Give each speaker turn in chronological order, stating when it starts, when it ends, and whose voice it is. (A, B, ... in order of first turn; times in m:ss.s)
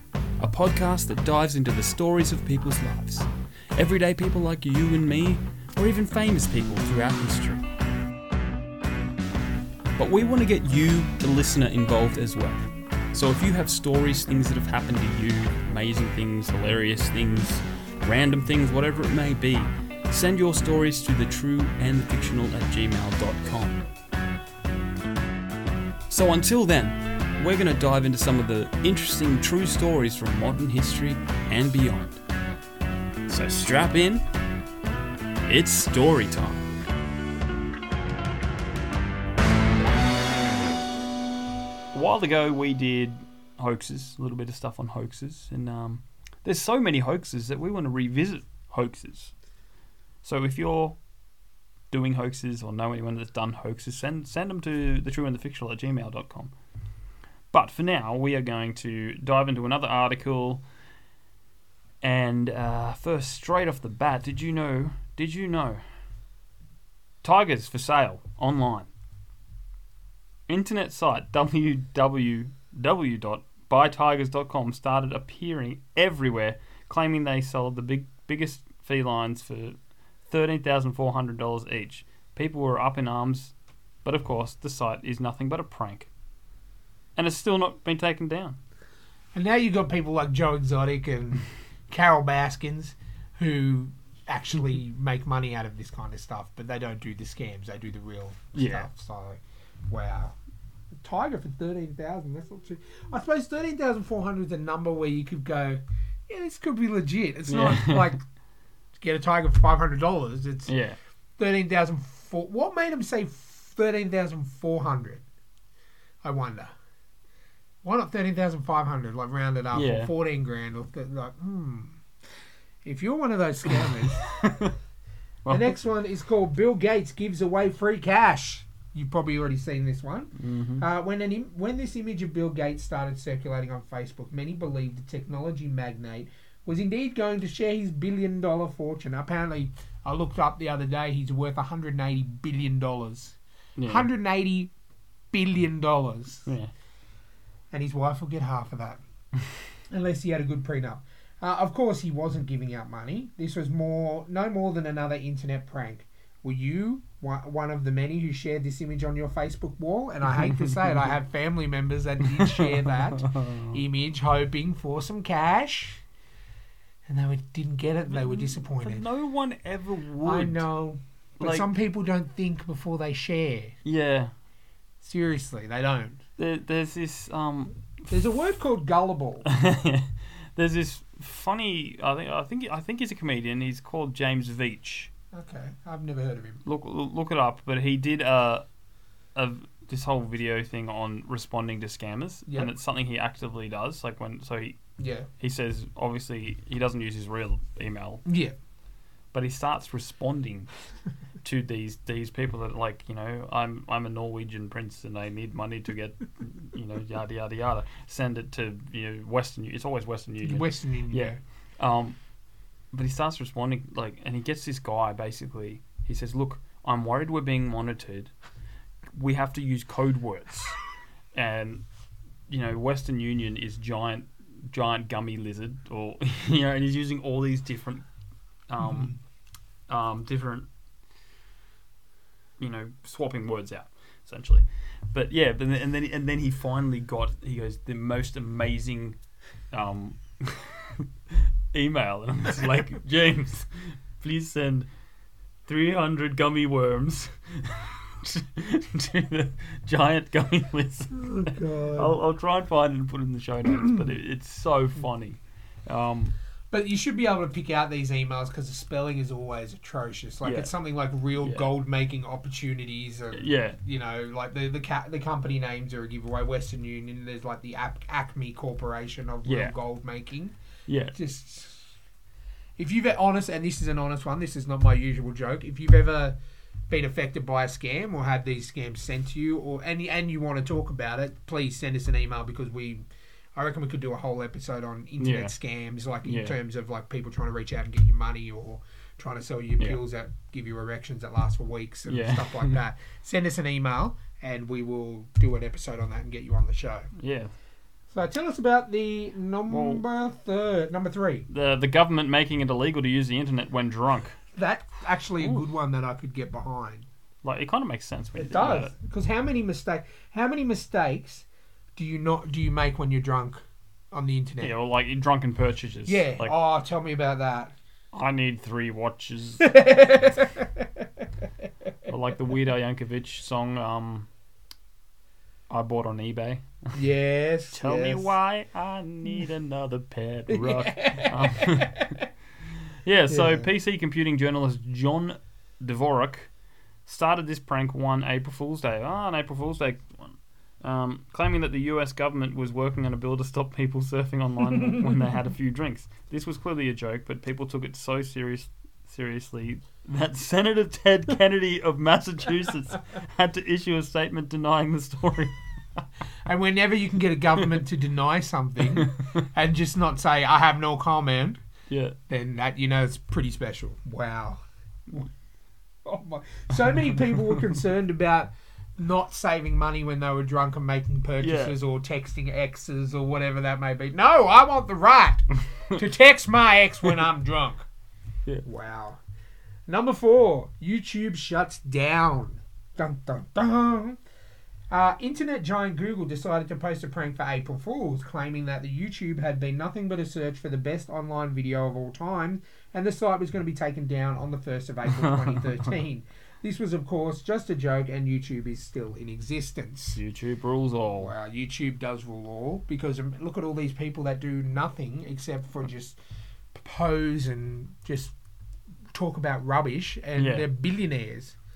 0:00.4-0:07.6 A
0:10.0-0:23.8 A
0:26.1-0:32.2 A
0:33.3-0:34.2 A
0:35.5-0:36.7 A
0:41.9-0:49.3 A
0:50.2-0:51.0 A
0:51.9-0:56.5 A
0:57.5-1:00.7 A
1:02.0-1:05.9 A
1:07.2-1:08.9 A
1:10.5-1:26.1 A
1:27.2-1:28.6 A
1:29.3-1:40.4 B
1:38.6-1:38.9 A
1:41.0-1:48.2 B
1:47.5-1:48.2 A
1:49.0-1:50.8 B
1:50.7-1:51.0 A
1:51.4-1:55.2 B
1:56.2-1:56.7 B
1:57.8-2:02.0 B
1:59.7-2:00.1 A
2:02.8-2:04.3 B
2:03.8-2:04.8 A
2:05.4-2:05.7 A
2:05.5-2:24.7 B
2:10.4-2:10.8 A
2:23.8-2:24.1 A
2:25.3-2:26.5 B
2:26.5-2:26.7 A
2:27.7-2:29.0 B
2:29.9-2:46.0 B
2:40.4-2:40.7 A
2:42.3-2:43.8 A
2:47.1-2:49.1 B
2:48.1-2:50.7 A
2:50.2-2:53.8 B
2:51.4-2:51.7 A
2:53.8-2:54.3 A
2:55.0-2:56.2 B
2:56.4-2:58.2 A
2:58.1-2:59.5 B
2:59.5-3:05.1 A
3:05.3-3:06.6 B
3:06.6-3:08.7 A
3:09.4-3:14.8 A
3:15.0-3:15.3 B
3:15.4-3:18.2 A
3:18.2-3:18.5 B
3:19.3-3:20.7 A
3:21.4-3:32.2 A
3:30.4-3:31.4 B
3:32.9-3:38.3 A
3:39.2-3:40.8 A
3:41.3-3:41.9 A
3:42.5-3:48.1 A
3:48.7-3:49.2 A
3:48.8-3:49.2 B
3:49.9-3:50.7 A
3:52.6-3:59.2 A
3:59.7-4:01.0 A
4:01.7-4:04.9 A
4:05.7-4:16.4 A
4:11.1-4:12.2 B
4:16.7-4:30.6 B
4:20.4-4:20.7 A
4:21.4-4:21.7 A
4:23.3-4:23.8 A
4:29.4-4:29.7 A
4:30.9-4:31.2 A
4:31.1-4:31.9 B
4:32.8-4:36.4 B
4:36.9-4:57.1 B
4:45.2-4:45.6 A
4:46.2-4:46.6 A
4:52.1-4:52.8 A
4:57.2-4:57.5 A
4:58.1-5:01.5 B
4:59.7-5:00.0 A
5:01.5-5:04.4 A
5:04.6-5:07.1 B
5:07.4-5:08.9 A
5:08.4-5:14.8 B
5:14.6-5:16.5 A
5:16.1-5:17.7 B
5:18.1-5:20.3 A
5:19.6-5:21.2 B
5:22.1-5:24.3 A
5:25.7-5:27.0 A
5:27.0-5:28.3 B
5:27.7-5:32.2 A
5:30.5-5:32.3 B
5:33.0-5:56.0 A
5:33.3-5:33.7 B
5:56.5-6:01.6 B
5:59.0-5:59.4 A
6:01.9-6:02.2 A
6:02.3-6:05.3 B
6:06.0-6:17.9 B
6:11.4-6:11.8 A
6:18.6-6:19.2 B
6:19.9-6:24.2 B
6:24.9-6:40.2 B
6:35.1-6:35.8 A
6:40.2-6:41.3 A
6:41.2-6:46.2 B
6:46.7-6:48.3 B
6:49.1-6:51.6 B
6:50.4-6:50.7 A